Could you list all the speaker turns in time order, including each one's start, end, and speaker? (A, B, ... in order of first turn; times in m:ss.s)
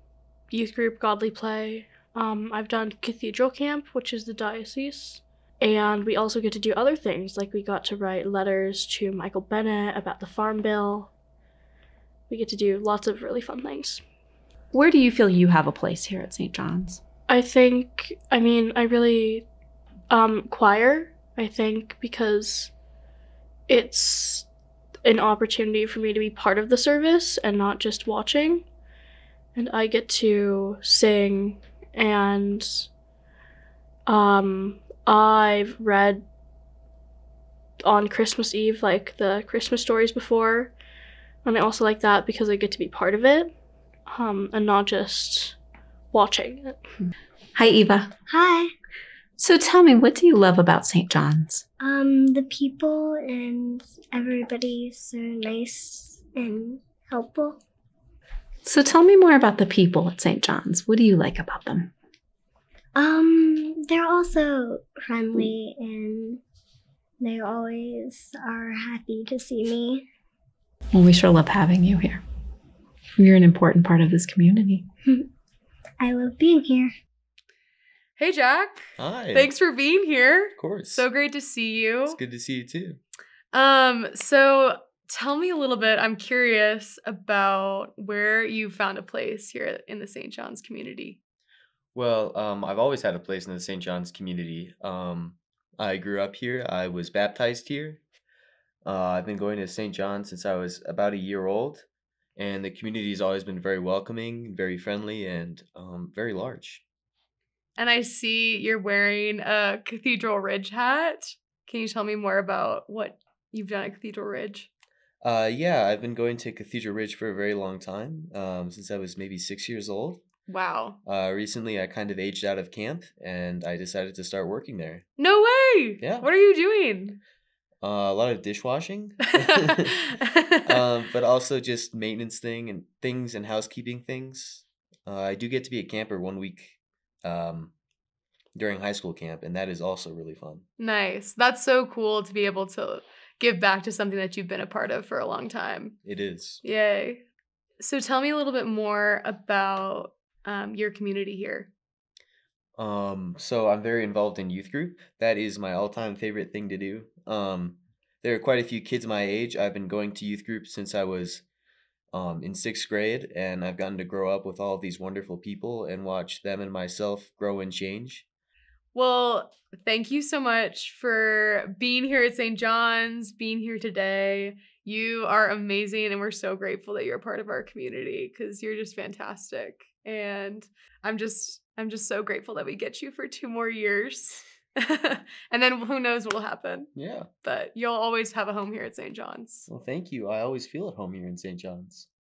0:00.5-0:11.1 A
0:12.3-0:14.0 A
0:14.7-0:17.0 B
0:17.3-0:19.4 A
0:20.1-0:22.7 A
0:23.7-0:24.4 A
0:25.0-0:28.6 A
0:29.6-0:32.9 A
0:34.1-0:36.2 A
0:37.8-0:40.7 A
0:41.4-0:43.5 A
0:44.1-0:45.6 A
0:46.1-0:46.8 A
0:47.6-0:48.1 B
0:48.3-0:48.7 C
0:49.4-0:51.6 B
0:51.8-0:57.6 C
0:58.6-1:01.9 B
1:03.0-1:06.4 C
1:07.2-1:10.0 C
1:10.9-1:12.2 B
1:13.2-1:14.8 B
1:16.0-1:16.9 C
1:18.2-1:22.2 D
1:19.0-1:19.5 E
1:20.6-1:21.0 E
1:22.1-1:23.0 E
1:23.5-1:31.2 D
1:31.9-1:38.0 E
1:38.8-1:41.8 E
1:42.4-1:46.8 E
1:47.8-1:54.7 D
1:55.2-2:00.2 E
2:00.5-2:01.0 D
2:01.0-2:05.0 E
2:05.2-2:07.2 D
2:06.0-2:06.3 E
2:07.8-2:10.0 E
2:09.4-2:10.7 D
2:10.6-2:17.7 E
2:18.5-2:20.6 E
2:20.8-2:25.9 D
2:26.0-2:26.6 E
2:26.6-2:27.2 D
2:27.8-2:31.7 D
2:32.8-2:41.4 E
2:42.1-2:48.2 E
2:48.9-3:06.9 D
3:06.9-3:07.3 E
3:07.4-3:09.7 D
3:09.7-3:12.1 E